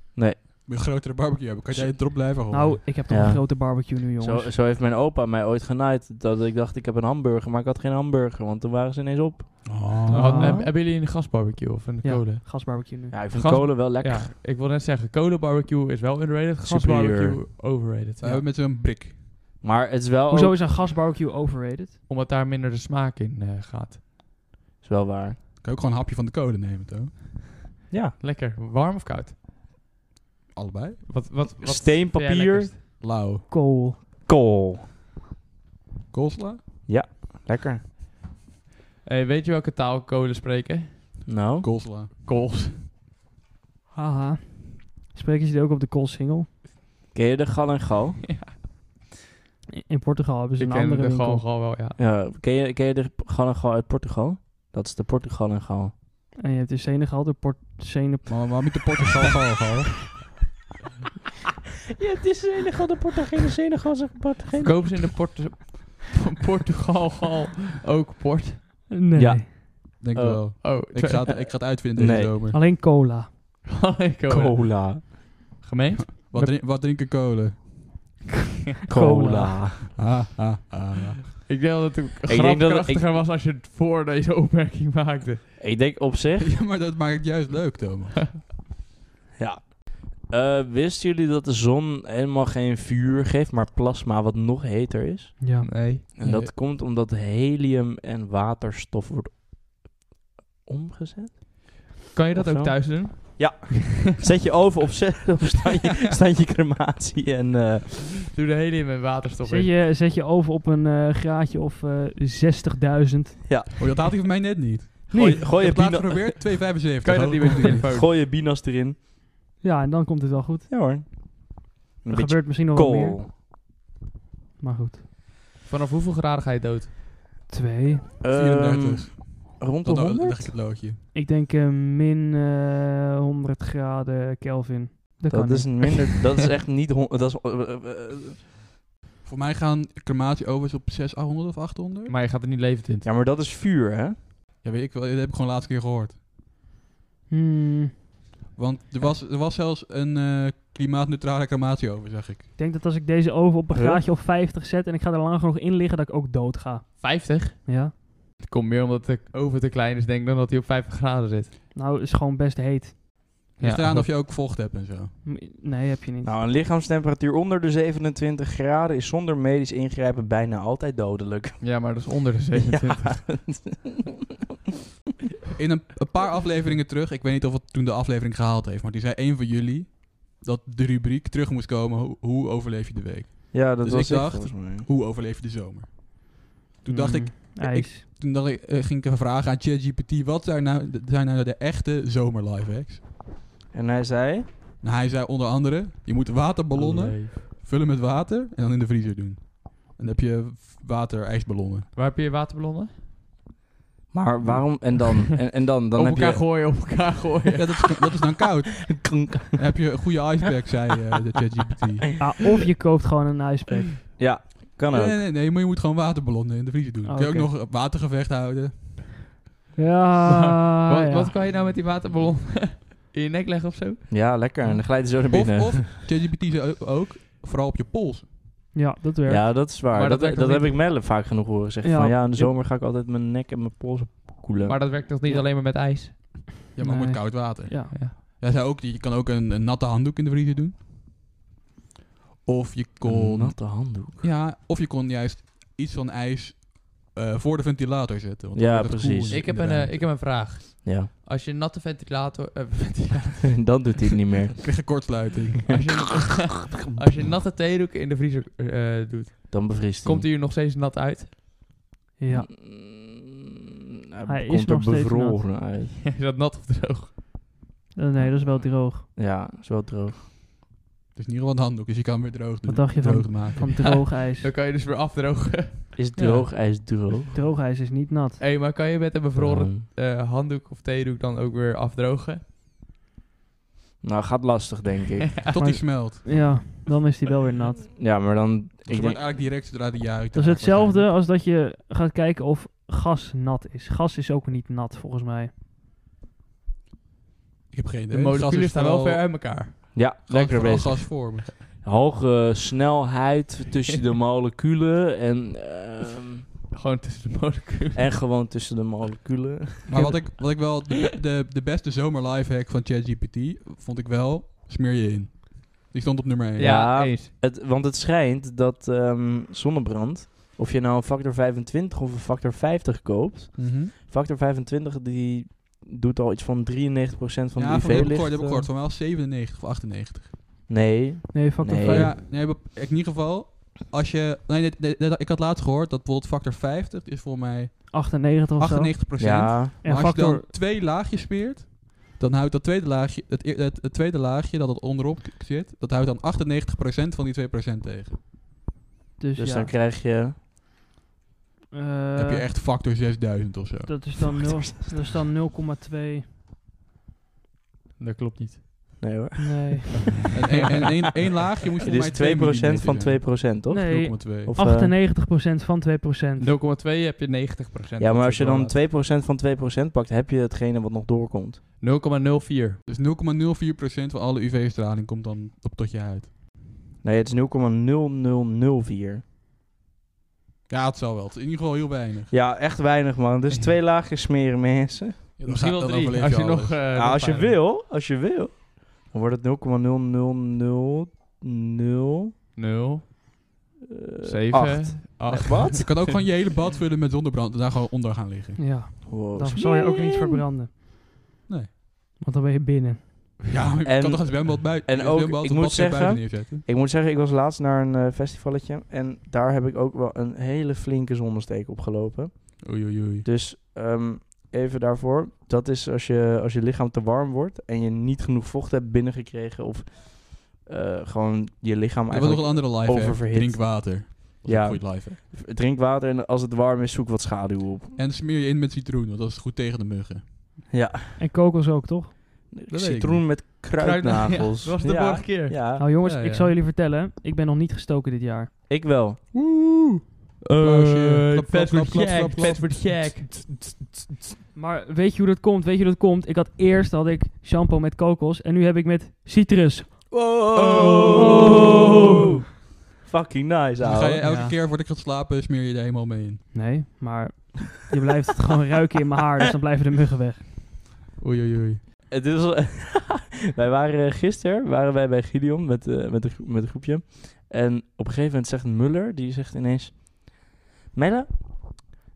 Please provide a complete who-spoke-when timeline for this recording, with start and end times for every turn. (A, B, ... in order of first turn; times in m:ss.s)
0:00.1-0:00.4 A
0:00.6-0:02.8 B
0:02.5-0:04.5 C
0:03.1-0:10.6 A
0:09.6-0:10.5 B
0:10.1-0:12.7 D
0:10.1-0:10.7 C
0:12.0-0:13.2 C
0:13.1-0:14.3 A
0:13.3-0:18.4 D
0:16.6-0:17.4 A
0:18.2-0:19.2 B
0:19.6-0:20.6 A
0:20.3-0:22.0 C
0:22.1-0:24.0 D
0:24.8-0:25.4 A
0:25.6-0:27.1 B
0:27.9-0:28.2 A
0:28.2-0:29.3 D
0:30.5-0:31.2 B
0:31.1-0:32.8 D
0:31.6-0:32.7 A
0:33.0-0:33.4 B
0:33.5-0:34.0 C
0:34.2-0:34.8 A
0:36.1-0:36.6 B
0:36.9-0:37.8 A
0:39.0-0:41.2 D
0:41.3-0:41.7 A
0:41.6-0:42.1 B
0:42.2-0:42.8 D
0:43.9-0:46.5 C
0:47.1-0:48.3 A
0:49.8-0:51.5 C
0:50.6-0:52.0 D
0:52.0-0:55.9 A
0:56.4-0:58.9 C
0:58.3-1:00.2 B
1:02.0-1:05.0 A
1:04.6-1:08.9 D
1:08.9-1:09.5 C
1:09.1-1:10.6 A
1:10.0-1:12.6 B
1:10.6-1:11.4 D
1:11.3-1:12.3 A
1:12.5-1:13.3 C
1:13.7-1:15.1 D
1:14.3-1:15.3 A
1:15.6-1:16.5 D
1:16.1-1:17.7 B
1:18.9-1:19.7 C
1:18.9-1:19.9 A
1:20.0-1:21.4 B
1:21.4-1:25.4 D
1:22.3-1:23.1 A
1:25.6-1:26.5 A
1:26.4-1:28.4 B
1:29.4-1:35.4 A
1:35.4-1:35.7 C
1:35.6-1:36.1 D
1:36.1-1:39.3 A
1:36.2-1:36.5 B
1:40.6-1:41.6 A
1:42.1-1:43.7 D
1:42.3-1:48.1 A
1:48.3-1:49.7 D
1:49.4-1:53.7 C
1:53.8-1:57.8 B
1:55.1-1:56.5 A
1:57.0-1:58.1 D
1:57.9-1:59.0 A
1:59.6-2:00.7 C
2:00.7-2:03.3 A
2:02.1-2:03.2 C
2:04.6-2:05.0 C
2:05.6-2:06.9 D
2:07.5-2:08.1 C
2:08.2-2:10.5 A
2:08.3-2:11.0 B
2:11.1-2:16.2 C
2:15.3-2:18.4 A
2:19.2-2:22.1 B
2:22.1-2:23.1 D
2:23.0-2:24.2 A
2:24.6-2:26.2 B
2:27.3-2:27.9 C
2:28.6-2:32.4 B
2:32.6-2:37.9 C
2:33.7-2:34.0 A
2:37.0-2:41.5 D
2:41.7-2:43.0 C
2:43.6-2:44.1 D
2:43.6-2:45.1 B
2:45.2-2:46.3 C
2:46.2-2:54.2 A
2:51.6-2:53.3 D
2:55.6-3:13.0 B
3:03.5-3:04.9 A
3:06.9-3:08.0 C
3:13.7-3:14.5 A
3:14.8-3:21.9 B
3:16.7-3:17.4 D
3:21.9-3:22.9 D
3:24.1-3:26.5 A
3:25.9-3:28.1 D
3:27.5-3:32.0 B
3:28.9-3:29.9 A
3:32.2-3:34.1 C
3:34.2-3:35.2 A
3:34.9-3:39.2 B
3:37.0-3:37.5 C
3:39.8-3:41.3 C
3:40.3-3:44.1 D
3:44.1-3:45.8 A
3:45.2-3:48.3 B
3:48.7-3:49.5 C
3:49.2-3:55.0 A
3:49.9-3:50.8 D
3:51.8-3:52.5 C
3:54.6-3:56.2 D
3:56.7-4:00.8 B
3:56.8-3:57.9 C
4:02.4-4:10.0 B
4:03.0-4:04.2 A
4:08.5-4:09.4 A
4:09.3-4:13.7 D
4:10.8-4:11.1 A
4:13.5-4:15.0 A
4:14.6-4:15.8 B
4:15.7-4:21.3 D
4:19.5-4:20.3 A
4:22.2-4:22.5 C
4:22.3-4:23.4 A
4:24.1-4:26.0 A
4:24.2-4:25.4 C
4:26.0-4:27.1 D
4:27.9-4:29.0 C
4:28.2-4:30.2 A
4:31.1-4:33.7 B
4:32.7-4:34.5 C
4:33.6-4:36.4 D
4:36.0-4:37.3 A
4:37.3-4:38.4 C
4:38.4-4:42.4 D
4:39.3-4:39.8 A
4:44.0-4:45.4 A
4:45.5-4:46.2 B
4:45.5-4:47.8 C
4:48.0-4:49.2 A
4:48.9-4:51.1 B
4:50.3-4:55.5 C
4:57.7-4:59.2 B
4:58.1-4:59.8 D
4:59.9-5:06.4 A
5:00.3-5:01.5 B
5:06.7-5:08.0 D
5:07.9-5:10.1 A
5:09.9-5:16.7 B
5:16.6-5:17.3 D
5:16.6-5:28.6 A
5:23.6-5:23.9 B
5:27.6-5:30.3 B
5:27.8-5:28.6 C
5:30.7-5:32.2 A
5:31.3-5:32.1 C
5:31.8-5:48.2 B
5:37.9-5:40.4 C
5:39.2-5:39.7 A
5:49.2-5:49.7 C
5:49.4-5:50.3 A
5:51.7-5:52.5 C
5:52.2-5:54.1 B
5:53.8-5:56.2 C
5:54.3-5:54.9 A
5:58.0-5:58.6 D
5:59.0-6:00.0 A
5:59.4-6:00.1 C
6:00.3-6:04.5 B
6:01.8-6:04.9 A
6:03.7-6:06.5 C
6:06.4-6:08.8 D
6:08.0-6:11.6 A
6:11.8-6:12.8 D
6:12.8-6:16.3 B
6:17.0-6:19.2 A
6:20.7-6:22.3 B
6:22.3-6:25.3 A
6:25.4-6:26.8 B
6:25.4-6:27.6 D
6:26.9-6:32.3 A
6:32.6-6:33.1 D
6:33.9-6:36.0 A
6:34.2-6:35.8 D
6:35.8-6:38.6 B
6:38.6-6:40.7 C
6:39.0-6:40.4 A
6:42.2-6:43.0 C
6:43.5-6:46.6 B
6:43.8-7:08.0 A
6:52.6-6:53.2 B
7:02.1-7:05.2 B
7:07.9-7:10.3 B
7:10.7-7:11.2 A
7:11.2-7:12.1 C
7:12.5-7:15.8 A
7:12.7-7:13.2 B
7:13.8-7:15.6 D
7:15.8-7:18.5 C
7:16.0-7:16.5 B
7:18.7-7:19.2 A
7:19.3-7:23.5 B
7:20.4-7:23.4 D
7:24.5-7:30.2 C
7:30.1-7:32.3 A
7:30.9-7:31.4 B
7:33.0-7:34.2 A
7:33.8-7:36.4 B
7:34.2-7:34.5 C
7:36.5-7:40.4 C
7:41.2-7:41.8 B
7:42.1-7:51.9 A